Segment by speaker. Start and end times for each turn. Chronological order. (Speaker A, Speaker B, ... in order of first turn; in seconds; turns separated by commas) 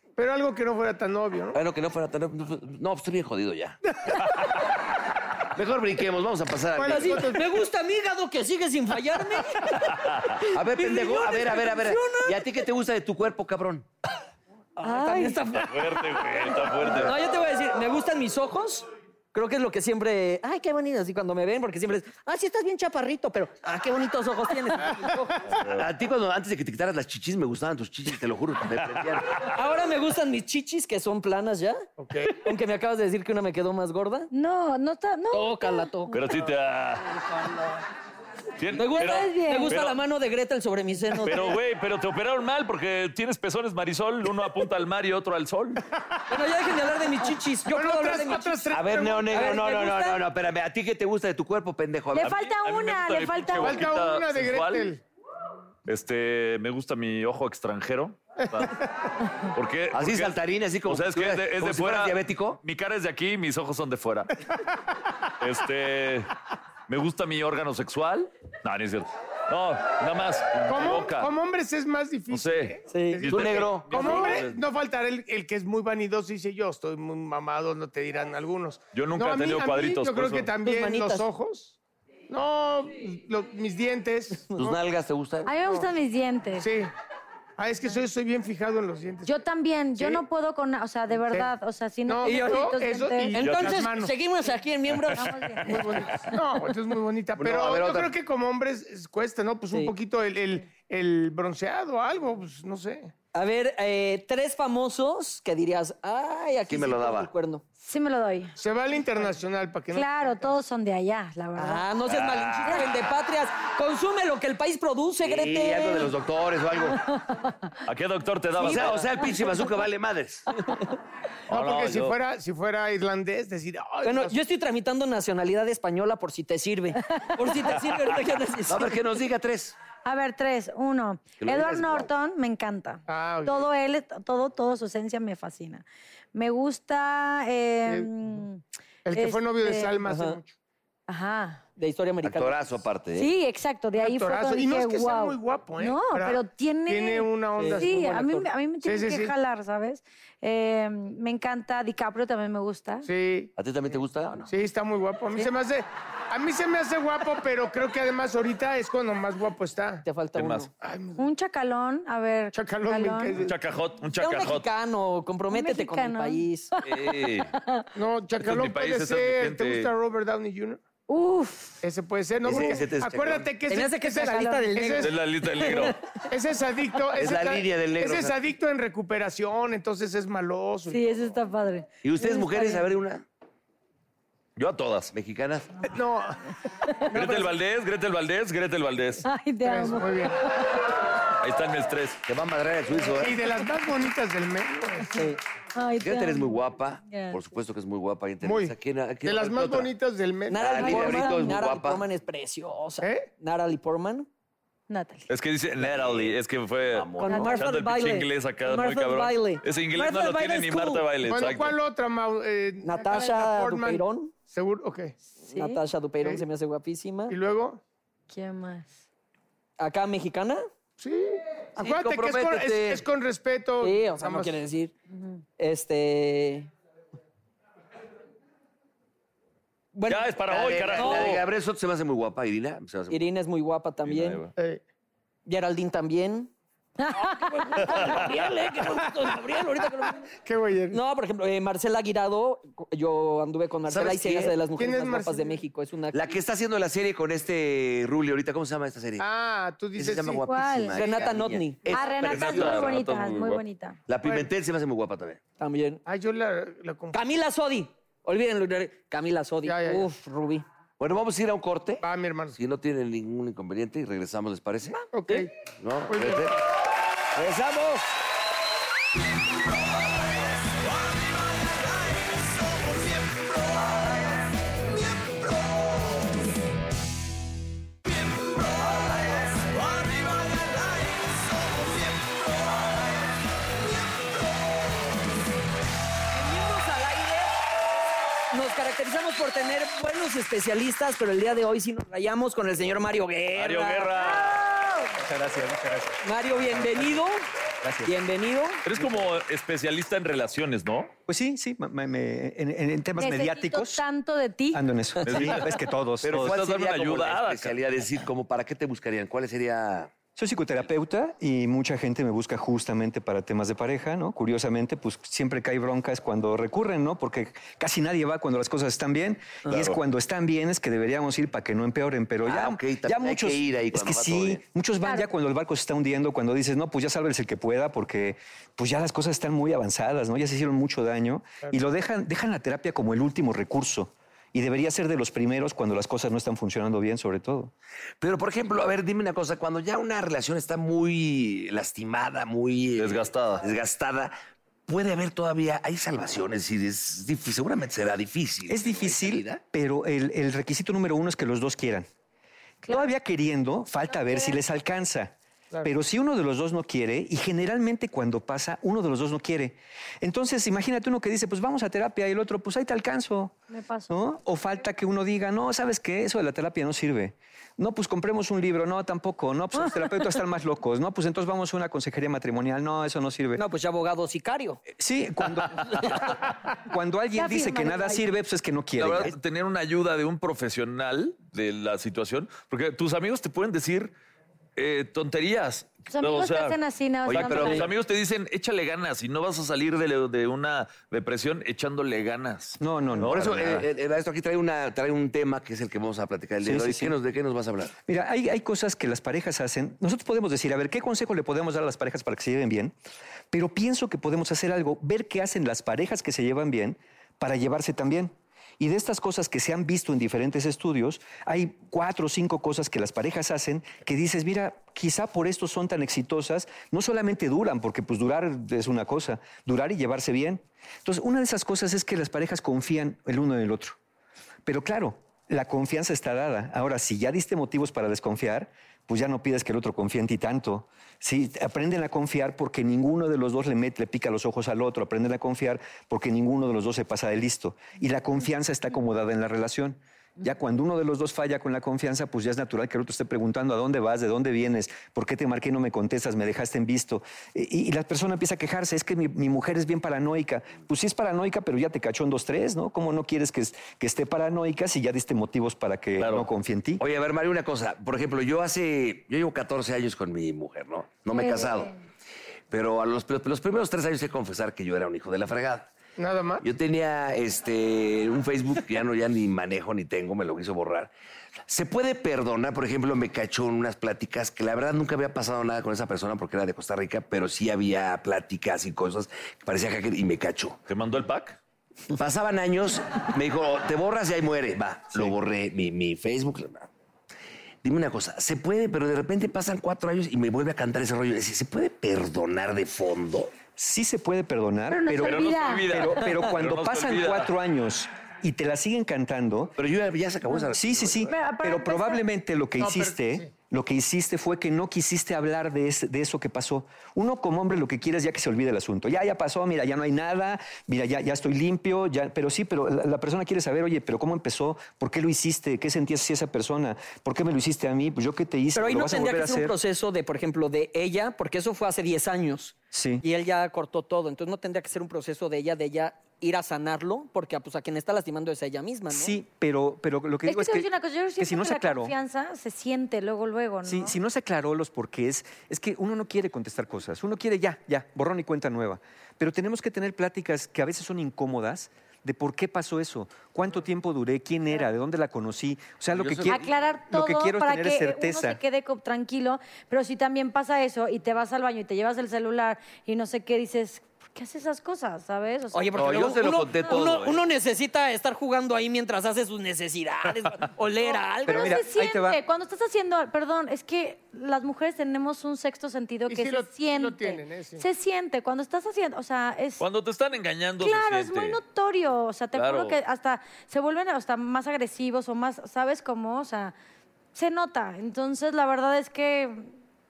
Speaker A: 0.2-1.6, Speaker B: 1.5-3.8, Speaker B: 5.5-7.3, Speaker A: 6.7-7.5, Speaker C: 6.9-12.4, Speaker D: 10.0-10.3, Speaker B: 10.5-13.9, Speaker C: 14.8-25.4, Speaker E: 14.8-15.4, Speaker D: 15.5-17.1, Speaker D: 25.5-25.8, Speaker B: 25.7-29.5, Speaker C: 29.5-34.3, Speaker A: 32.0-32.5, Speaker E: 34.3-35.9, Speaker C: 35.3-36.2, Speaker D: 36.1-37.1, Speaker C: 37.1-37.7, Speaker D: 38.6-40.0, Speaker C: 38.7-41.5, Speaker E: 38.9-39.8, Speaker D: 41.2-45.8, Speaker C: 46.3-48.7, Speaker A: 47.7-49.4, Speaker B: 48.7-52.4, Speaker C: 49.3-50.2, Speaker E: 52.1-53.9, Speaker D: 52.2-54.9, Speaker A: 53.6-55.0, Speaker D: 55.9-58.7, Speaker A: 58.4-58.7, Speaker D: 59.5-64.3, Speaker B: 59.9-62.6, Speaker D: 65.3-66.3, Speaker D: 66.9-71.3, Speaker A: 70.7-81.8, Speaker D: 72.3-74.6, Speaker C: 72.9-73.3, Speaker B: 73.3-74.4, Speaker D: 78.9-80.5, Speaker C: 80.6-81.2, Speaker A: 82.3-84.5, Speaker B: 84.5-85.5, Speaker E: 85.5-86.7, Speaker A: 86.6-86.9, Speaker A: 87.6-89.3, Speaker E: 89.2-93.4, Speaker A: 90.0-90.2, Speaker A: 92.1-94.1, Speaker C: 92.2-95.8, Speaker D: 93.4-93.9, Speaker E: 95.1-95.9, Speaker A: 95.7-103.1, Speaker B: 97.4-98.1, Speaker C: 103.3-107.6, Speaker B: 106.7-107.3, Speaker E: 107.8-108.5, Speaker A: 108.6-110.2, Speaker E: 109.9-111.8, Speaker C: 111.6-116.1, Speaker D: 112.1-112.9, Speaker B: 115.2-117.0, Speaker E: 117.1-117.5, Speaker D: 117.8-119.1, Speaker C: 118.6-119.1, Speaker B: 118.6-120.5, Speaker D: 121.5-122.2, Speaker A: 121.5-124.3, Speaker C: 124.0-128.9, Speaker E: 127.1-127.7, Speaker B: 128.7-129.8, Speaker E: 130.0-138.6, Speaker B: 131.4-132.1, Speaker A: 133.1-133.7, Speaker A: 137.9-138.1, Speaker A: 139.0-140.5, Speaker E: 139.1-139.9, Speaker C: 140.0-140.4, Speaker E: 141.1-141.6, Speaker C: 141.8-142.6, Speaker B: 142.2-143.3, Speaker E: 143.2-153.1, Speaker A: 144.0-148.0, Speaker C: 147.6-148.5, Speaker A: 148.8-149.3, Speaker A: 153.0-153.5, Speaker B: 153.6-154.5, Speaker A: 154.5-160.0, Speaker C: 160.0-160.7, Speaker D: 160.3-160.7, Speaker A: 160.8-161.2, Speaker E: 161.2-163.4, Speaker A: 162.5-163.5, Speaker D: 163.4-164.7, Speaker C: 164.2-166.7, Speaker E: 165.5-166.8, Speaker D: 166.8-167.5, Speaker A: 167.9-170.8, Speaker D: 168.4-169.9, Speaker E: 171.1-171.8, Speaker A: 171.8-175.1, Speaker B: 172.4-173.5, Speaker C: 173.7-176.0, Speaker D: 175.0-176.0, Speaker A: 176.3-181.3, Speaker B: 177.1-178.3, Speaker E: 180.9-182.8, Speaker B: 182.0-183.2, Speaker D: 184.6-185.1, Speaker B: 185.1-185.9, Speaker A: 185.9-186.4, Speaker A: 187.1-187.5, Speaker D: 187.1-189.2, Speaker E: 189.2-190.9, Speaker A: 189.6-190.4, Speaker D: 191.4-192.2, Speaker B: 192.2-193.4, Speaker A: 193.2-195.2, Speaker C: 195.1-195.4, Speaker E: 195.7-197.4, Speaker B: 196.0-199.9, Speaker A: 198.4-200.9, Speaker C: 200.5-204.3, Speaker B: 200.5-202.0, Speaker E: 200.8-201.3, Speaker A: 203.0-203.3, Speaker E: 204.9-205.3, Speaker D: 205.3-211.8, Speaker B: 205.8-206.3, Speaker B: 206.9-207.6, Speaker C: 207.2-211.0, Speaker E: 207.3-207.6, Speaker A: 211.2-215.2, Speaker C: 212.8-214.3, Speaker C: 215.4-217.3, Speaker E: 215.4-215.8, Speaker A: 217.3-217.8, Speaker E: 218.3-218.9, Speaker C: 219.8-220.6, Speaker A: 221.0-224.6, Speaker B: 221.8-223.0, Speaker C: 223.8-224.9, Speaker E: 225.1-225.4, Speaker C: 225.6-226.7, Speaker C: 229.9-230.3, Speaker D: 230.1-231.4, Speaker B: 230.5-233.3, Speaker C: 230.9-231.4, Speaker C: 233.1-234.4, Speaker D: 234.0-234.5, Speaker A: 234.6-234.8, Speaker C: 235.4-236.5, Speaker E: 237.0-238.0, Speaker C: 237.1-240.3, Speaker D: 237.8-238.4, Speaker A: 240.3-241.0, Speaker C: 240.9-246.2, Speaker B: 243.9-244.6, Speaker A: 244.8-245.6, Speaker B: 246.1-249.2, Speaker A: 249.2-250.4, Speaker B: 249.9-252.9, Speaker E: 250.4-250.9, Speaker C: 250.9-251.9, Speaker E: 251.9-254.0, Speaker D: 252.2-253.6, Speaker B: 254.1-255.4, Speaker A: 254.2-254.5, Speaker C: 255.6-256.0, Speaker A: 256.0-257.2, Speaker C: 257.1-260.6, Speaker A: 259.6-260.1, Speaker B: 261.0-265.1, Speaker A: 262.0-262.6, Speaker A: 265.1-265.5, Speaker B: 265.7-266.6, Speaker A: 266.1-266.4, Speaker B: 267.3-268.1, Speaker C: 286.3-287.5, Speaker C: 288.5-294.2, Speaker D: 293.6-294.6, Speaker E: 294.2-295.1, Speaker F: 295.1-297.2, Speaker C: 296.2-297.4, Speaker F: 297.8-298.1, Speaker C: 298.0-298.8, Speaker D: 298.8-301.1, Speaker F: 299.0-299.3, Speaker F: 301.3-304.0, Speaker E: 303.2-304.8, Speaker F: 304.7-306.6, Speaker D: 305.2-305.7, Speaker B: 306.2-310.1, Speaker D: 306.2-307.7, Speaker F: 310.4-337.7, Speaker D: 319.7-320.0, Speaker B: 322.4-324.6, Speaker E: 325.0-325.3, Speaker B: 338.2-344.3, Speaker D: 343.0-343.6, Speaker B: 344.9-349.6, Speaker F: 348.7-352.1, Speaker E: 352.8-353.1, Speaker F: 352.9-355.3, Speaker E: 354.1-354.6, Speaker F: 355.8-363.5, Speaker E: 363.7-364.1, Speaker F: 364.1-373.6, Speaker E: 369.8-370.1, Speaker C: 373.6-374.8, Speaker F: 374.9-379.3, Speaker E: 377.3-378.2, Speaker D: 379.0-384.1, Speaker D: 384.8-386.8, Speaker E: 386.1-387.9, Speaker B: 387.3-387.9, Speaker D: 387.3-392.8, Speaker F: 392.8-393.8, Speaker B: 393.1-397.9, Speaker F: 396.6-397.1, Speaker F: 398.1-402.9, Speaker F: 403.5-424.0, Speaker F: 424.6-457.0, Speaker D: 456.2-456.5, Speaker B: 457.0-461.9, Speaker E: 461.3-461.9, Speaker B: 462.7-465.9, Speaker A: 466.2-466.6, Speaker B: 466.6-471.1, Speaker B: 471.7-480.8, Speaker D: 480.9-481.6, Speaker B: 482.1-486.9, Speaker B: 487.8-493.6, Speaker F: 493.7-499.7, Speaker E: 494.9-495.9, Speaker D: 495.2-497.5, Speaker B: 499.8-501.3, Speaker F: 500.7-519.7, Speaker E: 501.3-502.2, Speaker A: 502.8-503.5, Speaker C: 518.7-529.4, Speaker F: 522.9-523.2, Speaker F: 529.1-532.1, Speaker E: 530.5-534.2, Speaker F: 533.8-548.6, Speaker B: 546.1-546.5, Speaker D: 546.2-546.5, Speaker E: 546.5-556.1, Speaker C: 555.7-561.8, Speaker B: 555.9-557.4, Speaker F: 561.5-562.4, Speaker E: 561.5-569.8, Speaker A: 566.3-567.8, Speaker D: 569.8-571.6, Speaker E: 570.8-576.7, Speaker D: 572.5-573.0, Speaker E: 577.3-579.7